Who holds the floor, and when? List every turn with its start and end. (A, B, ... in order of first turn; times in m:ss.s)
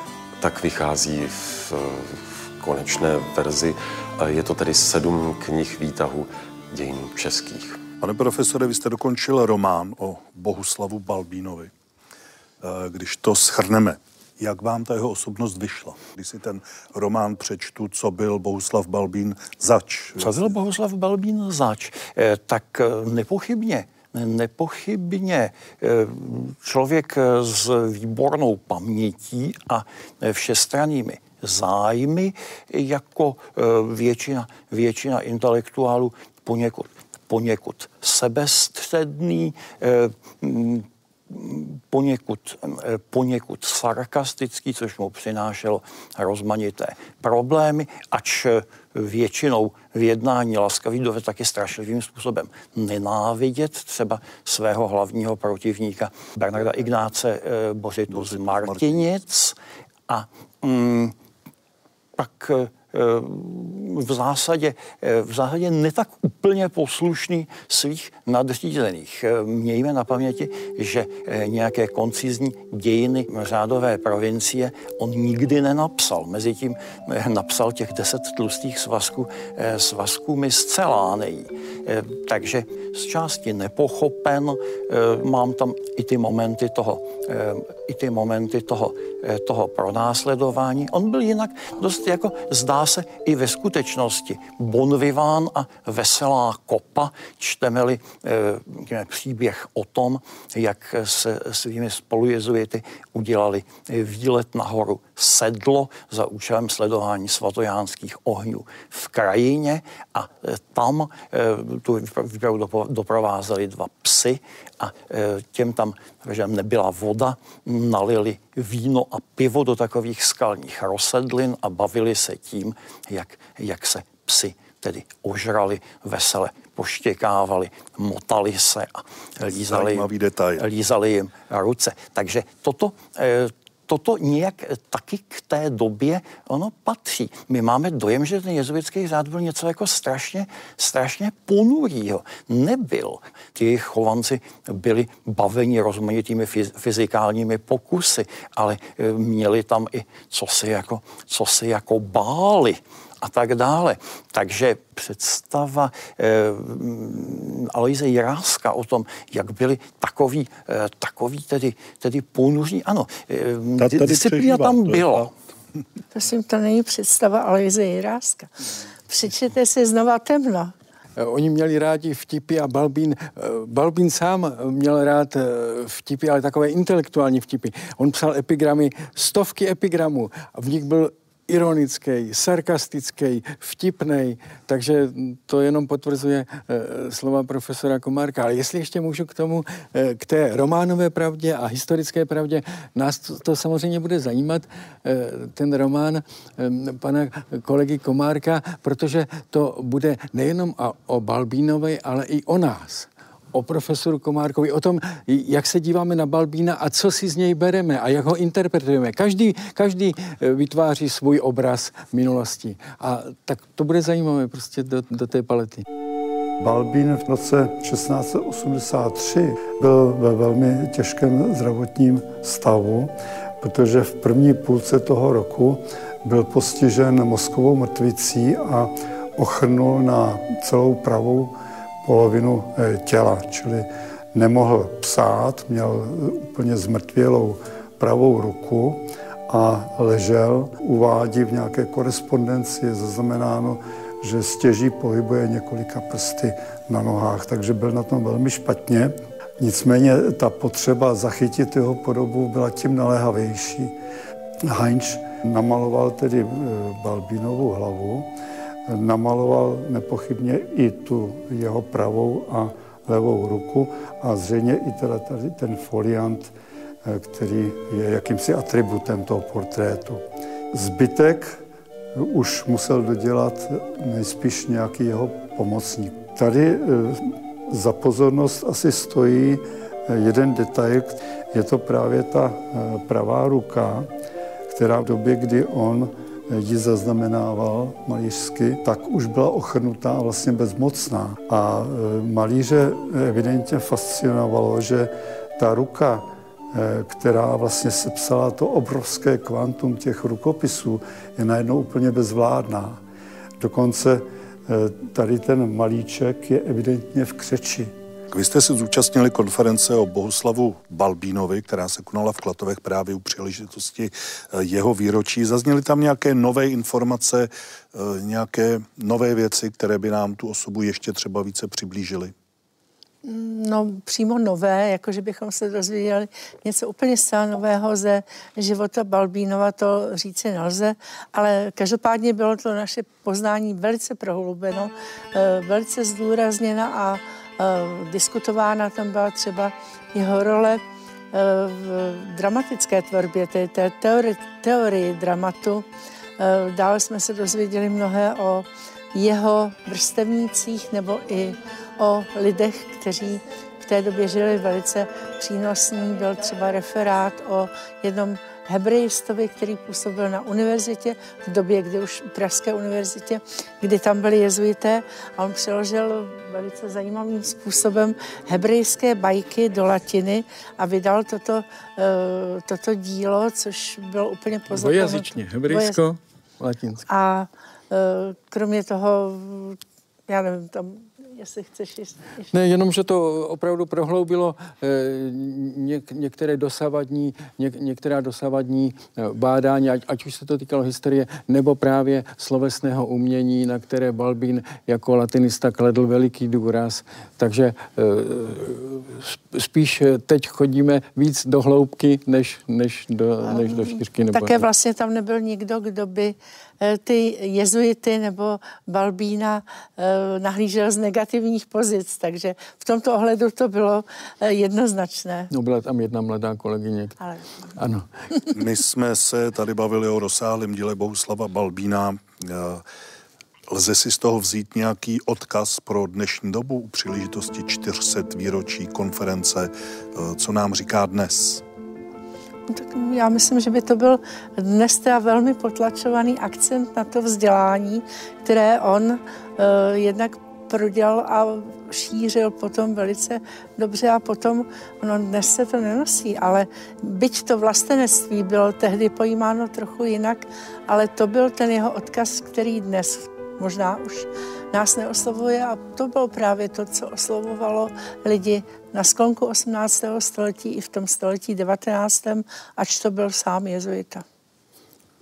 0:00.4-0:07.8 A
0:08.0-0:11.7 B
0:12.6-0:20.5 B
0:20.2-0:59.6 C
0:58.1-0:59.0 B
1:00.1-1:01.1 C
1:02.2-2:10.1 C
2:09.4-2:10.6 B
2:10.6-2:45.3 C
2:43.8-2:45.3 B
2:46.1-2:48.5 D
2:49.1-2:50.7 D
2:51.2-3:35.8 E
3:36.6-4:13.9 F
4:14.7-4:18.3 F
4:18.9-4:26.5 F
4:27.0-4:31.6 F
4:32.2-4:44.1 F
4:44.7-5:03.0 F
5:03.6-5:07.9 F
5:08.3-5:22.3 B
5:23.2-5:45.8 D
5:46.4-6:16.0 D
6:14.7-6:17.0 E
6:17.1-6:22.4 D
6:22.5-6:44.6 E
6:43.4-6:55.5 D
6:55.5-6:57.2 E
6:57.2-6:57.6 D
6:57.7-6:58.1 E
6:58.5-7:02.8 B
7:03.7-7:11.6 B
7:12.7-7:44.2 D